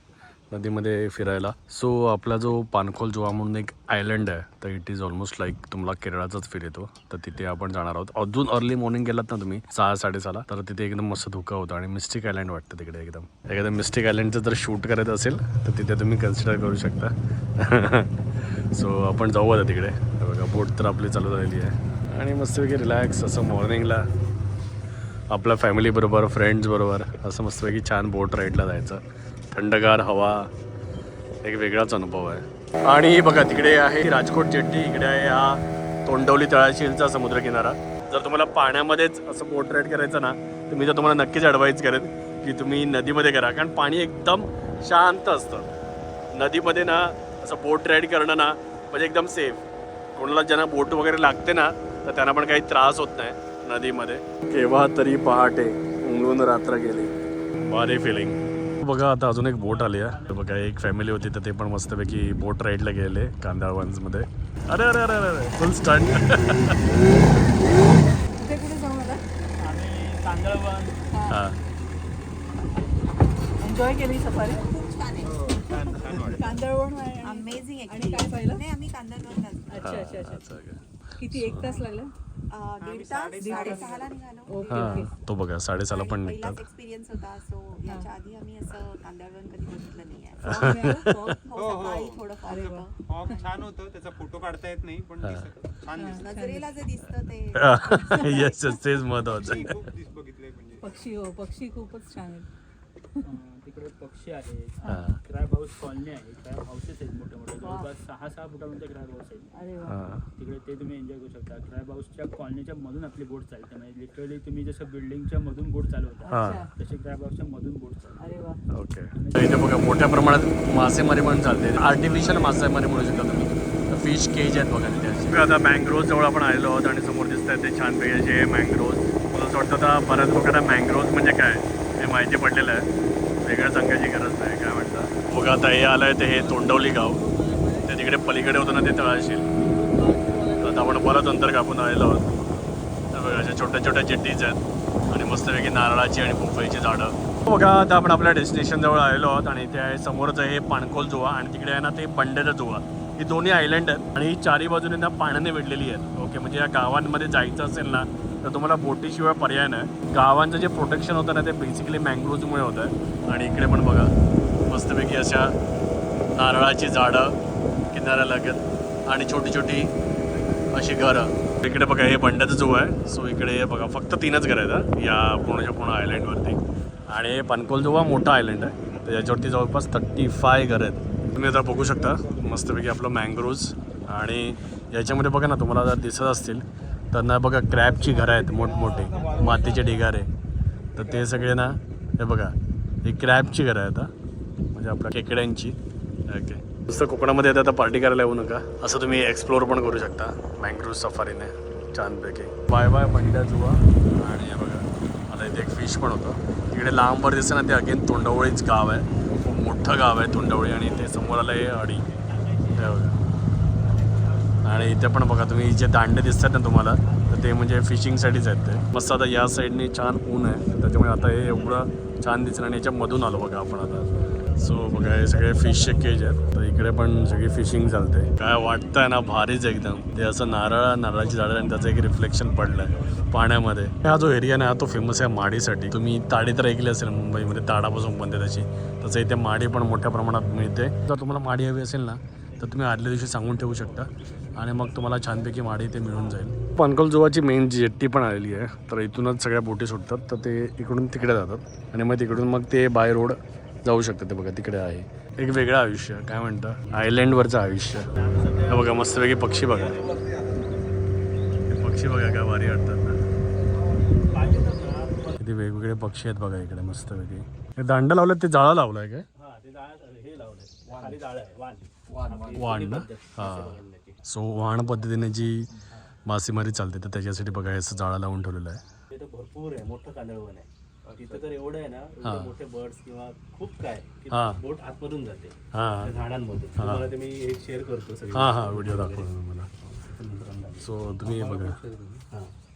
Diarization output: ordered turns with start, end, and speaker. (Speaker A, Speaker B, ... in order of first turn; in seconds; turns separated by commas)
Speaker A: 0.5-24.1, Speaker A: 25.3-30.5, Speaker A: 31.4-45.8, Speaker A: 46.3-57.1, Speaker A: 57.6-66.9, Speaker B: 59.7-60.4, Speaker C: 68.3-69.2, Speaker B: 69.6-71.0, Speaker C: 71.1-71.4, Speaker A: 71.3-71.6, Speaker C: 73.6-74.7, Speaker D: 74.6-76.4, Speaker E: 75.4-76.5, Speaker C: 76.2-78.6, Speaker D: 77.2-80.0, Speaker C: 79.7-80.5, Speaker A: 79.8-81.8, Speaker C: 81.2-82.1, Speaker D: 82.5-85.1, Speaker E: 82.8-84.0, Speaker C: 83.4-85.1, Speaker A: 84.7-86.6, Speaker D: 85.9-93.7, Speaker C: 87.8-88.1, Speaker A: 90.4-91.4, Speaker C: 90.4-91.7, Speaker E: 91.5-96.3, Speaker C: 92.4-93.4, Speaker A: 95.2-95.5, Speaker C: 96.0-96.8, Speaker D: 96.0-98.8, Speaker A: 97.5-99.8, Speaker C: 98.0-98.4, Speaker E: 99.2-100.9, Speaker C: 100.8-102.5, Speaker B: 103.2-109.5, Speaker A: 104.8-105.2, Speaker C: 107.6-107.9, Speaker C: 109.5-110.0, Speaker A: 109.8-110.2, Speaker B: 110.4-118.2, Speaker C: 116.2-116.7, Speaker A: 116.3-116.6, Speaker C: 118.2-118.6, Speaker A: 118.7-132.9, Speaker B: 119.1-120.1, Speaker A: 133.4-137.2, Speaker C: 136.6-137.8, Speaker A: 137.8-139.5, Speaker C: 139.6-141.1, Speaker A: 140.6-164.1, Speaker A: 164.6-165.6, Speaker A: 166.3-167.4, Speaker A: 167.9-169.9, Speaker A: 170.7-190.3, Speaker A: 190.9-194.1, Speaker A: 194.7-195.8, Speaker A: 196.3-212.1, Speaker A: 212.8-213.2, Speaker A: 214.6-258.1, Speaker F: 258.1-260.5, Speaker A: 258.7-260.1, Speaker A: 261.7-263.2, Speaker F: 263.9-265.4, Speaker A: 265.4-269.2, Speaker F: 269.4-274.2, Speaker A: 272.5-275.6, Speaker A: 276.2-278.8, Speaker F: 279.1-289.3, Speaker A: 282.2-282.5, Speaker A: 284.3-284.6, Speaker A: 285.7-286.1, Speaker A: 286.8-287.1, Speaker A: 288.3-289.7, Speaker F: 289.9-292.5, Speaker A: 290.8-291.8